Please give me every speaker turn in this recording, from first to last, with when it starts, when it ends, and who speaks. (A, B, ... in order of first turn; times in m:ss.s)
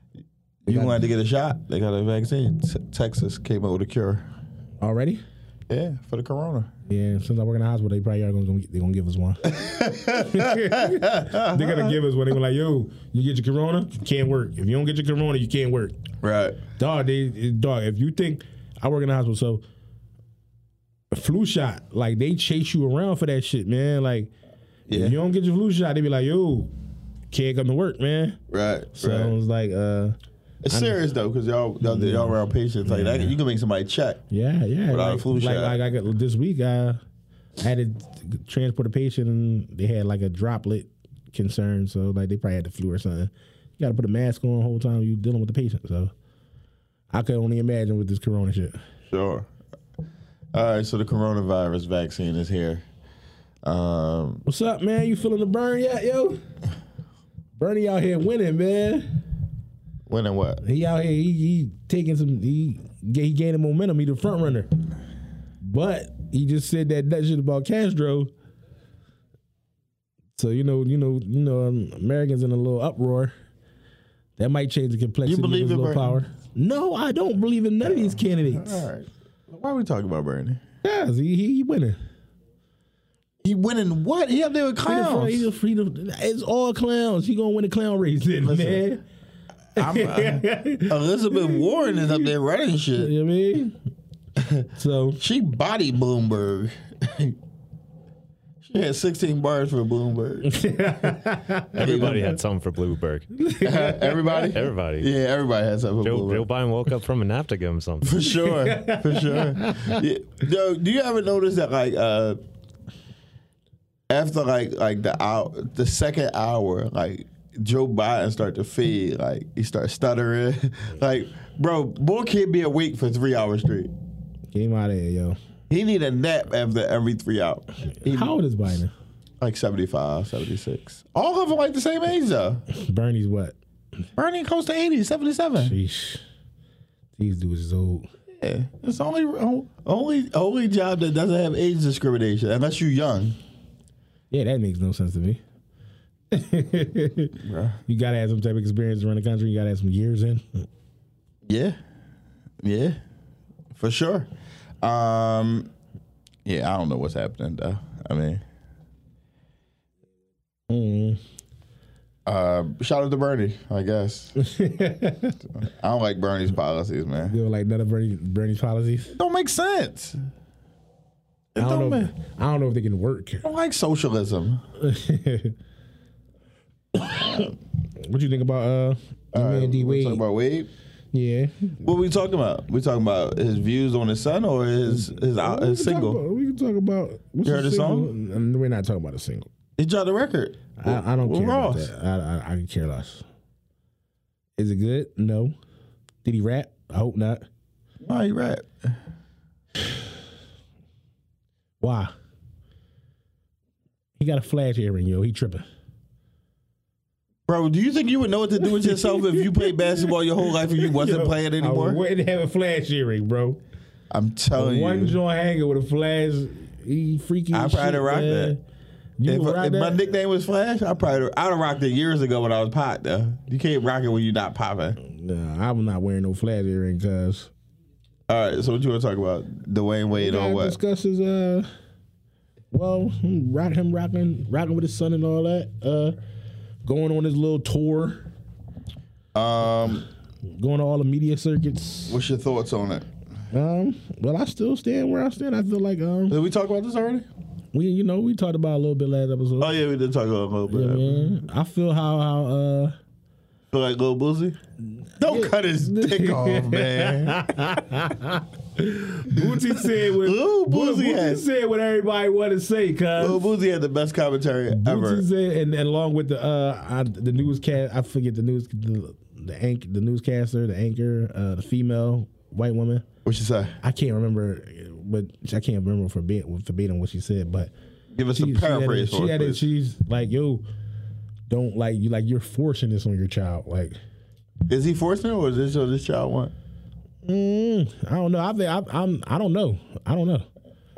0:00.6-0:04.3 A
0:00.7-0:01.0 B
0:04.8-0:05.2 B
0:05.7-0:06.7 A
0:06.9-0:16.0 B
0:09.4-0:12.0 A
0:16.2-0:16.6 A
0:16.8-0:19.6 B
0:21.1-0:24.3 B
0:24.9-0:25.2 A
0:24.9-0:26.7 B
0:27.3-0:28.4 B
0:28.5-0:29.4 A
0:29.0-0:30.2 B
0:30.6-0:34.2 A
0:30.7-0:31.0 B
0:31.8-0:33.3 B
0:34.3-0:37.0 B
0:34.9-0:35.8 A
0:37.6-0:46.1 B
0:47.1-0:48.8 B
0:49.1-0:49.5 A
0:50.5-0:52.8 A
0:53.6-0:54.4 A
0:54.5-0:56.4 B
0:57.6-0:59.1 B
1:00.1-1:00.6 A
1:00.6-1:04.7 B
1:05.6-1:08.3 B
1:10.4-1:13.3 B
1:14.4-1:18.9 B
1:15.2-1:16.2 A
1:17.8-1:20.6 A
1:20.8-1:22.0 B
1:23.4-1:25.5 A
1:24.9-1:29.0 B
1:28.4-1:28.9 A
1:29.8-1:33.1 A
1:29.8-1:32.1 B
1:33.0-1:33.8 B
1:34.4-1:37.4 A
1:34.8-1:35.2 B
1:38.6-1:40.5 A
1:40.4-1:42.2 B
1:41.8-1:43.3 C
1:41.8-1:42.2 A
1:43.4-1:44.5 B
1:43.6-1:46.4 A
1:44.5-1:45.1 C
1:46.0-1:48.2 C
1:48.0-1:52.4 A
1:48.4-1:50.0 B
1:54.1-2:03.9 A
2:04.5-2:05.4 B
2:05.7-2:08.4 A
2:08.1-2:08.9 B
2:09.4-2:12.6 A
2:12.7-2:13.6 B
2:14.2-2:15.8 A
2:15.6-2:16.2 B
2:17.2-2:18.1 B
2:18.4-2:23.4 A
2:24.3-2:25.4 B
2:26.3-2:27.4 B
2:27.4-2:27.8 A
2:27.9-2:30.7 B
2:31.5-2:31.8 A
2:32.6-2:33.0 A
2:33.8-2:34.3 A
2:34.8-2:35.7 A
2:36.4-2:38.4 A
2:40.7-2:41.2 B
2:42.3-2:44.3 A
2:44.4-2:45.4 B
2:45.6-2:47.4 A
2:47.2-2:49.1 B
2:49.1-2:50.2 A
2:51.6-2:52.1 A
2:51.6-2:53.4 B
2:53.4-2:54.6 A
2:54.8-2:55.6 B
2:57.0-3:00.2 B
2:59.3-3:00.7 A
3:01.1-3:01.8 B
3:01.8-3:06.2 A
3:04.9-3:09.5 B
3:07.4-3:08.1 A
3:09.8-3:11.9 A
3:10.8-3:13.2 B
3:14.6-3:15.6 B
3:16.2-3:17.4 B
3:18.0-3:19.0 A
3:21.8-3:22.1 B
3:24.2-3:25.7 B
3:27.5-3:32.0 A
3:29.3-3:29.8 B
3:30.8-3:33.6 B
3:34.1-3:35.2 A
3:34.5-3:38.6 B
3:37.5-3:38.6 A
3:39.2-3:40.0 B
3:39.2-3:45.0 A
3:45.0-3:47.5 B
3:48.3-3:50.8 A
3:50.2-3:51.7 B
3:52.7-3:56.2 B
3:56.8-3:58.3 B
3:59.3-4:00.1 A
4:00.5-4:02.2 B
4:02.1-4:03.1 A
4:03.5-4:06.4 B
4:06.3-4:07.3 A
4:07.7-4:09.8 B
4:09.6-4:11.4 A
4:10.7-4:13.0 B
4:13.7-4:14.6 A
4:15.2-4:17.5 A
4:15.2-4:23.5 B
4:19.3-4:21.4 A
4:23.2-4:25.2 A
4:24.7-4:33.1 B
4:33.2-4:33.8 A
4:33.8-4:37.7 B
4:38.2-4:39.6 A
4:38.3-4:40.7 B
4:41.5-4:44.0 B
4:44.7-4:46.5 A
4:47.2-4:50.5 B